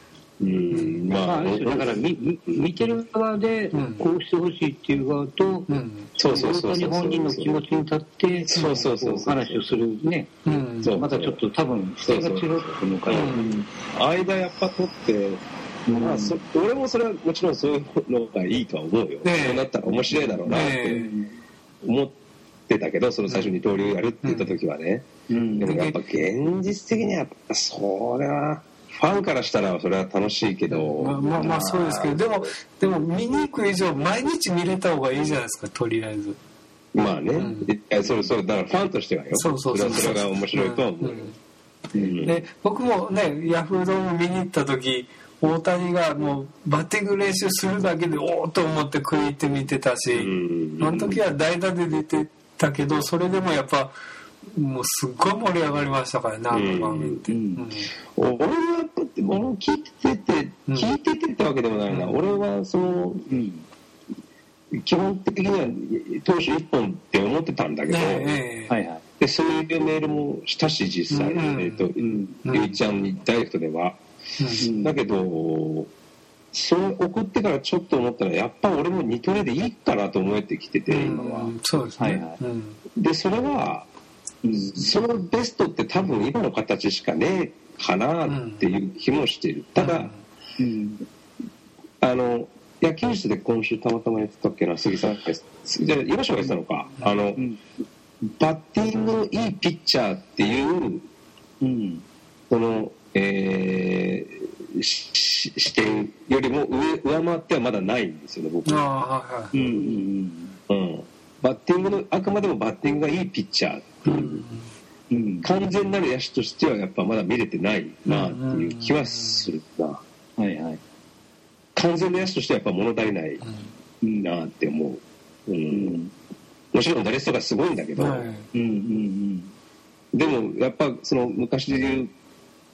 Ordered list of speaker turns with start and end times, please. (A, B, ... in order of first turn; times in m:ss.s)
0:00.4-0:02.6 A
0:00.7-0:01.0 B
0:01.1-0:13.7 C
0:03.7-0:04.1 B
0:05.7-0:06.1 B
0:06.2-0:07.6 A
0:08.4-0:09.6 A
0:10.4-0:11.0 B
0:10.8-0:11.4 A
0:12.0-0:13.4 A
0:13.1-0:13.6 B
0:13.9-0:21.0 A
0:15.9-0:16.3 C
0:19.2-0:19.7 B
0:20.1-0:21.3 C
0:20.5-0:21.1 B
0:21.8-0:22.2 A
0:22.7-0:32.2 A
0:24.2-0:24.5 B
0:25.3-0:25.8 C
0:25.6-0:26.0 B
0:30.7-0:36.4 B
0:36.9-0:41.3 A
0:37.4-0:37.7 B
0:39.3-0:41.3 B
0:41.9-0:42.3 C
0:42.0-0:42.4 A
0:42.2-0:54.0 B
0:50.1-0:51.2 A
0:54.5-0:57.9 B
0:56.5-0:57.2 A
0:57.3-0:57.7 C
0:58.2-1:03.2 A
1:03.3-1:03.6 C
1:04.7-1:08.4 A
1:07.9-1:08.8 B
1:08.7-1:09.0 C
1:09.2-1:14.0 A
1:11.1-1:11.9 B
1:12.0-1:12.4 C
1:12.4-1:12.8 B
1:14.4-1:14.7 B
1:14.6-1:15.0 C
1:14.6-1:15.9 A
1:16.5-1:21.5 A
1:20.9-1:22.8 B
1:22.0-1:22.4 C
1:23.0-1:23.9 A
1:24.4-1:24.9 C
1:24.6-1:30.1 A
1:28.3-1:28.7 B
1:29.8-1:30.2 B
1:30.6-1:31.0 C
1:32.0-1:37.4 A
1:38.2-1:41.1 A
1:41.6-1:42.0 C
1:42.5-1:48.8 A
1:48.7-1:49.6 B
1:49.5-1:50.6 C
1:50.7-1:54.4 A
1:54.0-1:54.7 B
1:55.1-1:55.5 C
1:55.4-2:00.0 A
1:58.1-1:59.5 B
2:00.4-2:00.8 C
2:01.8-2:03.4 A
2:03.4-2:03.7 B
2:04.0-2:04.3 C
2:04.2-2:06.0 A
2:05.7-2:06.1 C
2:06.7-2:08.3 A
2:08.0-2:08.5 B
2:08.5-2:09.5 C
2:10.1-2:12.1 A